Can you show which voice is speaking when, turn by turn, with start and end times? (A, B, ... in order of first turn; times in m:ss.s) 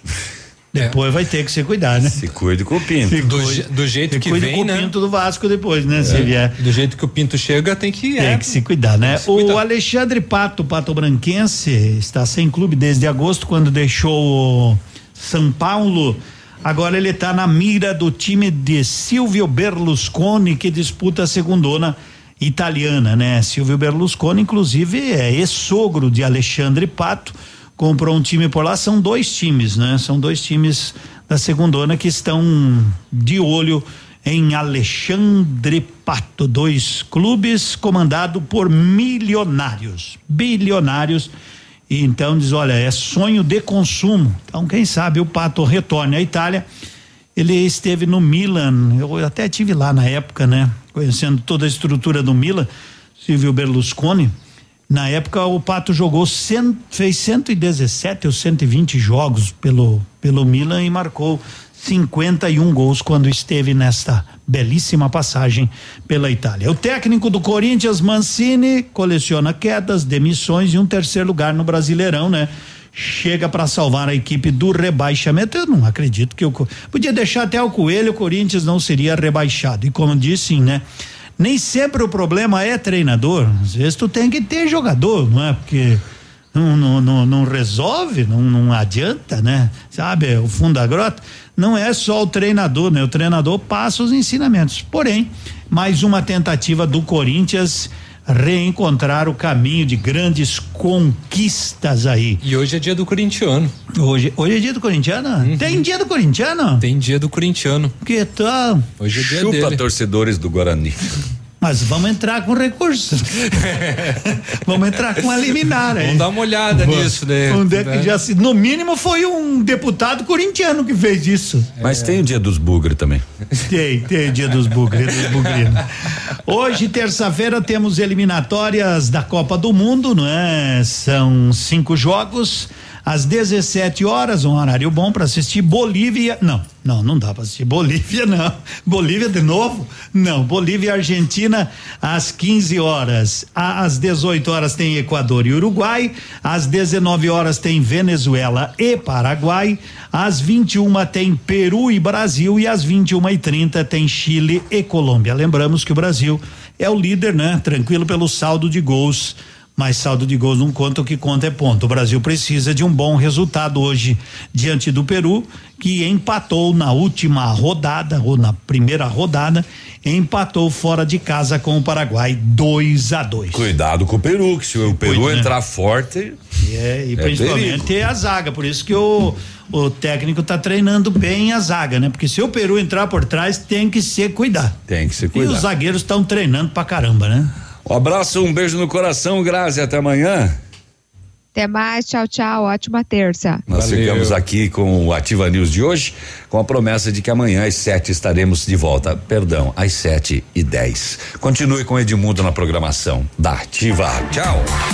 0:00.7-0:02.2 A
0:02.1-0:03.2 B
0:03.1-0:06.5 A
0:03.2-0:04.9 C
0:06.0-0:06.3 B
0:06.0-0:09.6 C
0:08.2-0:41.3 A
0:41.9-0:46.7 A
0:47.4-0:54.3 A
0:54.9-1:20.8 A
1:21.4-1:26.0 A
1:26.5-1:42.4 A
1:42.4-1:43.7 C
1:44.0-1:46.8 A
1:45.4-1:45.8 C
1:46.8-1:47.9 C
1:48.0-1:48.9 A
1:49.0-1:49.8 C
1:49.1-1:51.2 B
1:51.6-1:53.5 A
1:53.8-1:54.1 C
1:54.6-2:01.7 A
1:56.0-1:58.1 C
2:01.8-2:03.2 B
2:01.8-2:02.1 C
2:03.7-2:05.8 A
2:06.5-2:53.7 A
2:53.5-2:56.4 B
2:55.0-2:55.5 A
2:56.6-3:04.8 A
2:57.2-2:57.9 B
3:04.9-3:05.7 B
3:05.3-3:07.5 A
3:07.9-3:10.6 B
3:11.5-3:13.6 D
3:13.7-3:24.7 B
3:13.7-3:14.4 C